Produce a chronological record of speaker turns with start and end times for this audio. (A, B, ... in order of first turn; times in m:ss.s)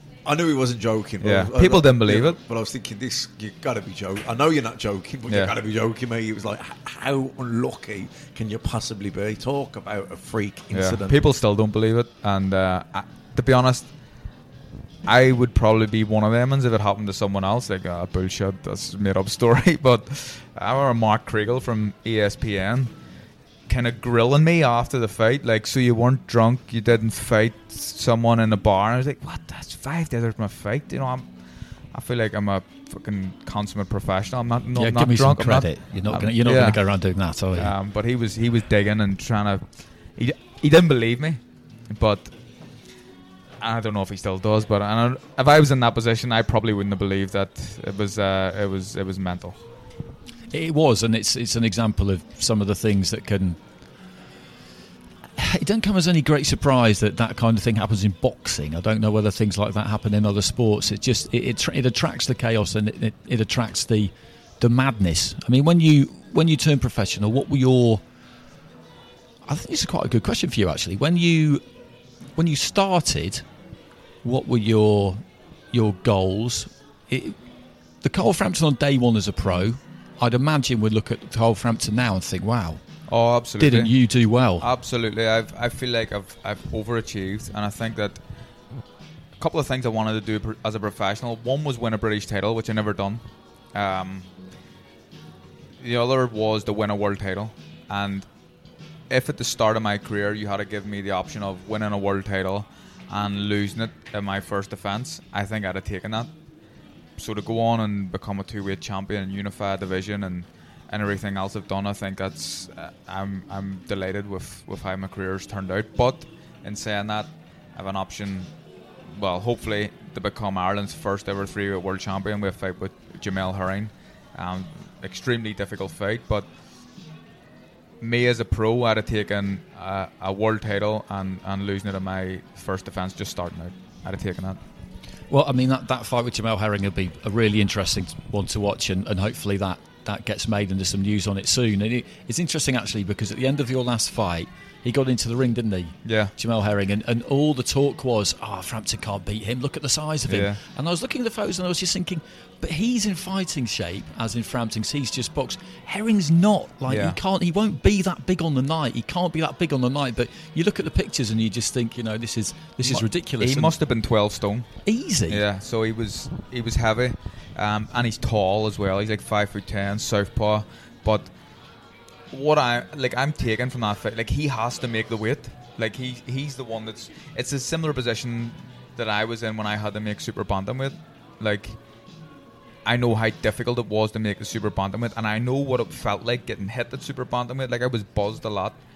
0:00.2-0:11.2 A
0:01.2-0:02.4 B
0:05.3-0:05.5 B
0:10.7-0:13.9 B
0:15.0-0:22.9 B
0:23.7-0:31.2 B
0:31.9-0:36.8 B
0:34.8-0:37.7 C
0:37.5-0:42.3 B
0:43.6-0:49.6 B
0:50.5-0:53.6 C
0:55.4-1:08.0 C
1:09.5-1:11.6 C
1:12.4-1:13.4 C
1:14.2-1:17.4 C
1:18.0-1:22.8 C
1:23.1-1:23.9 B
1:23.6-1:24.7 C
1:24.6-1:28.2 B
1:29.4-1:33.2 B
1:33.7-1:34.3 B
1:35.8-1:38.2 B
1:39.1-1:46.3 B
1:47.2-1:58.5 B
1:59.1-2:06.5 B
2:08.0-2:14.6 B
2:15.3-2:43.7 C
2:26.0-2:26.3 B
2:30.3-2:30.6 B
2:36.9-2:37.2 B
2:42.8-2:44.7 B
2:44.8-2:45.4 C
2:45.3-2:51.3 B
2:52.3-3:01.8 B
3:02.8-3:08.8 B